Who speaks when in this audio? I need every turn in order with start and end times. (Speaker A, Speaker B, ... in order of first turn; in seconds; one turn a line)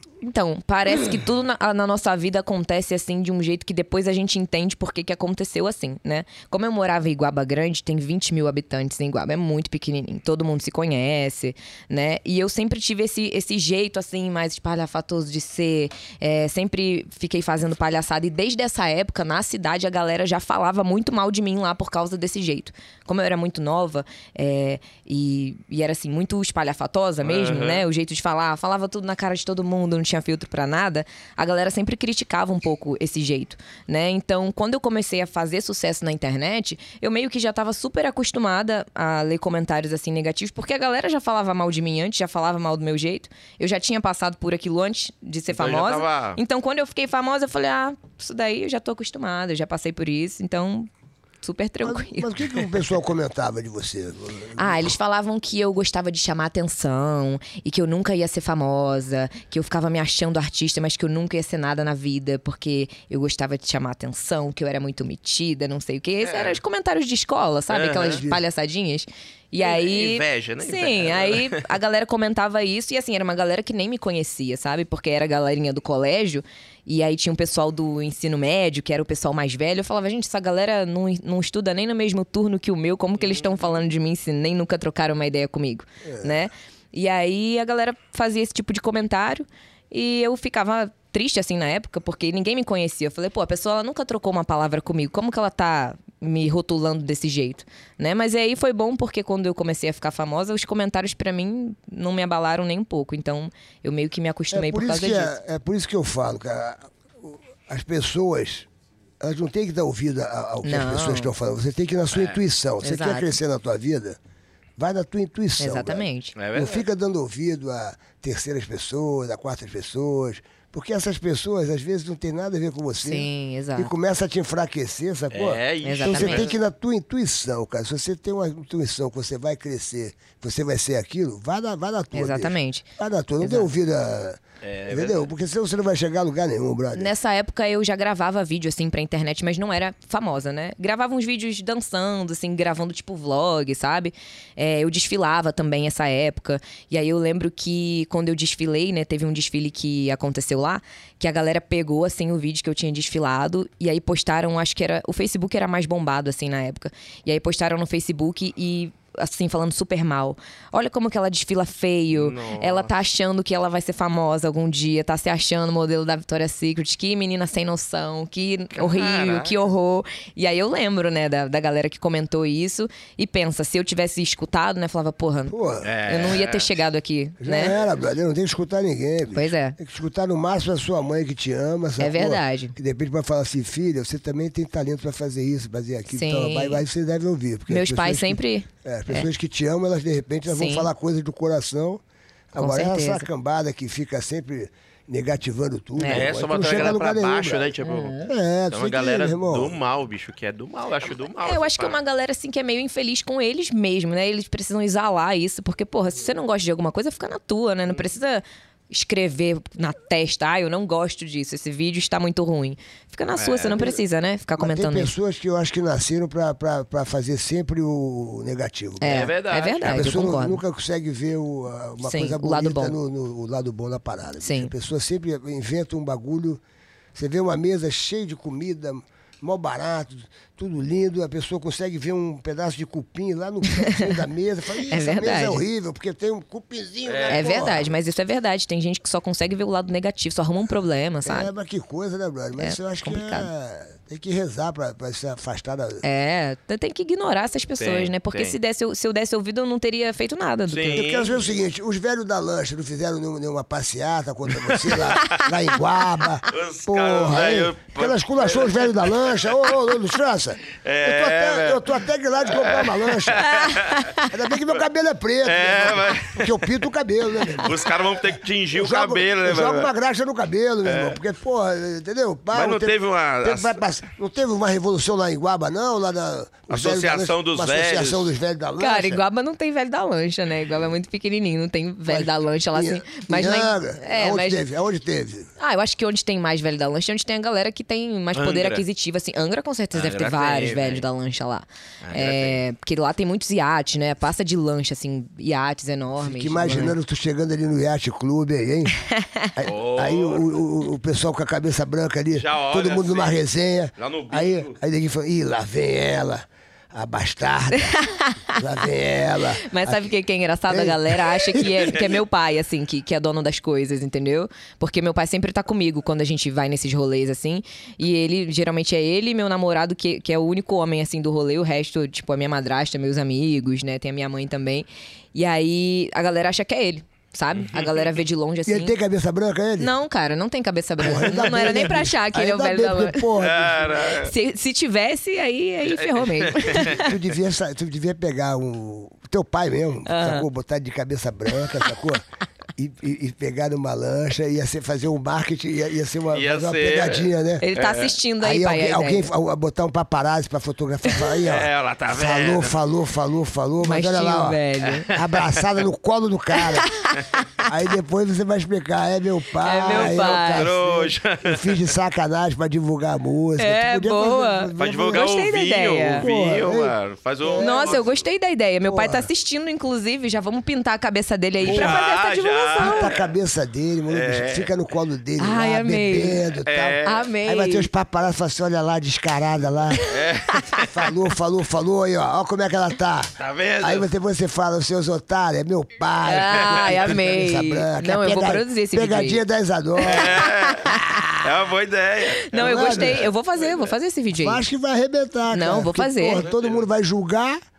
Speaker A: 0.2-50.9
Speaker B: 27.2-27.9
Speaker B: 45.5-46.4
Speaker A: 51.4-52.3
Speaker C: 51.8-54.9
Speaker A: 54.6-105.3
Speaker B: 66.2-66.6
Speaker B: 67.7-68.3
Speaker C: 68.1-68.4
Speaker B: 69.6-71.7
Speaker C: 86.0-86.5
Speaker C: 104.5-108.7
Speaker C: 109.2-114.2
Speaker A: 110.6-111.3
Speaker B: 112.1-112.4
Speaker A: 112.8-113.3
Speaker C: 114.8-137.1
Speaker A: 115.6-116.3
Speaker B: 116.4-116.8
Speaker A: 123.0-123.9
Speaker B: 125.3-126.5
Speaker A: 125.8-126.5
Speaker A: 132.1-132.9
Speaker A: 133.4-133.7
Speaker B: 134.6-135.3
Speaker A: 136.9-177.7
Speaker B: 162.1-162.9
Speaker B: 168.7-169.5
Speaker C: 175.5-175.9
Speaker B: 175.8-176.8
Speaker C: 177.4-192.0
Speaker A: 179.3-179.8
Speaker A: 182.0-182.7
Speaker A: 186.1-186.8
Speaker A: 187.7-189.2
Speaker A: 190.5-190.9
Speaker C: 192.5-199.7
Speaker A: 192.6-193.3
Speaker A: 196.0-196.3
Speaker B: 196.1-202.0
Speaker A: 197.8-198.3
Speaker A: 201.4-215.1
Speaker B: 213.4-213.8
Speaker C: 214.6-219.3
Speaker A: 219.0-220.6
Speaker B: 219.1-220.1
Speaker C: 219.8-226.6
Speaker A: 222.0-222.9
Speaker A: 224.4-224.7
Speaker C: 227.1-237.9
Speaker A: 233.8-234.2
Speaker A: 234.9-235.6
Speaker B: 237.1-237.7
Speaker A: 237.3-241.5
Speaker C: 241.2-246.0
Speaker A: 242.6-243.5
Speaker A: 246.0-251.1
Speaker B: 247.8-248.6
Speaker B: 250.7-251.4
Speaker C: 250.9-268.0
Speaker B: 254.5-255.5
Speaker B: 256.5-259.8
Speaker B: 260.7-261.9
Speaker B: 262.4-264.1
Speaker B: 265.4-266.7
Speaker B: 267.6-269.9
Speaker C: 268.7-279.2
Speaker B: 270.8-271.2
Speaker B: 272.5-273.8
Speaker B: 276.7-278.3
Speaker A: 278.8-284.6
Speaker C: 282.1-285.5
Speaker A: 285.6-297.0
Speaker B: 288.3-288.8
Speaker B: 289.9-291.1
Speaker B: 292.0-292.6
Speaker C: 296.2-298.9
Speaker A: 299.0-299.5
Speaker C: 299.6-308.0
Speaker B: 299.6-300.5
Speaker B: 302.3-303.4
Speaker B: 304.0-304.8
Speaker A: 307.9-308.6
Speaker C: 308.5-310.1
Speaker A: 309.6-328.9
Speaker C: 310.7-312.0
Speaker B: 327.6-328.2
Speaker C: 328.6-329.9
Speaker A: 329.8-333.3
Speaker C: 331.0-333.9
Speaker B: 333.4-334.3
Speaker A: 334.1-337.1
Speaker B: 335.8-337.1
Speaker C: 336.7-342.2
Speaker A: 340.1-340.4
Speaker A: 341.6-341.9
Speaker C: 342.8-347.6
Speaker B: 346.3-348.2
Speaker A: 347.6-349.3
Speaker C: 348.4-354.6
Speaker B: 351.4-352.8
Speaker A: 353.8-355.1
Speaker B: 354.8-355.7
Speaker C: 355.1-356.9
Speaker A: 356.8-357.7
Speaker B: 357.1-357.4
Speaker C: 357.6-365.3
Speaker A: 359.6-360.7
Speaker B: 359.9-361.9
Speaker A: 363.6-366.2
Speaker B: 364.8-368.2
Speaker C: 366.2-368.0
Speaker A: 367.6-373.1
Speaker C: 368.9-369.3
Speaker B: 371.6-373.3
Speaker C: 371.7-372.0
Speaker C: 372.8-380.1
Speaker B: 374.1-374.7
Speaker A: 375.4-376.5
Speaker B: 376.6-377.3
Speaker A: 377.1-377.9
Speaker B: 380.0-380.9
Speaker A: 380.0-380.9
Speaker C: 380.8-391.3
Speaker B: 383.4-384.1
Speaker A: 386.3-389.4
Speaker B: 386.6-387.0
Speaker B: 390.0-393.9
Speaker A: 390.0-391.3
Speaker A: 392.5-394.6
Speaker C: 392.5-393.3
Speaker C: 394.3-397.6
Speaker A: 395.5-396.4
Speaker B: 396.4-396.9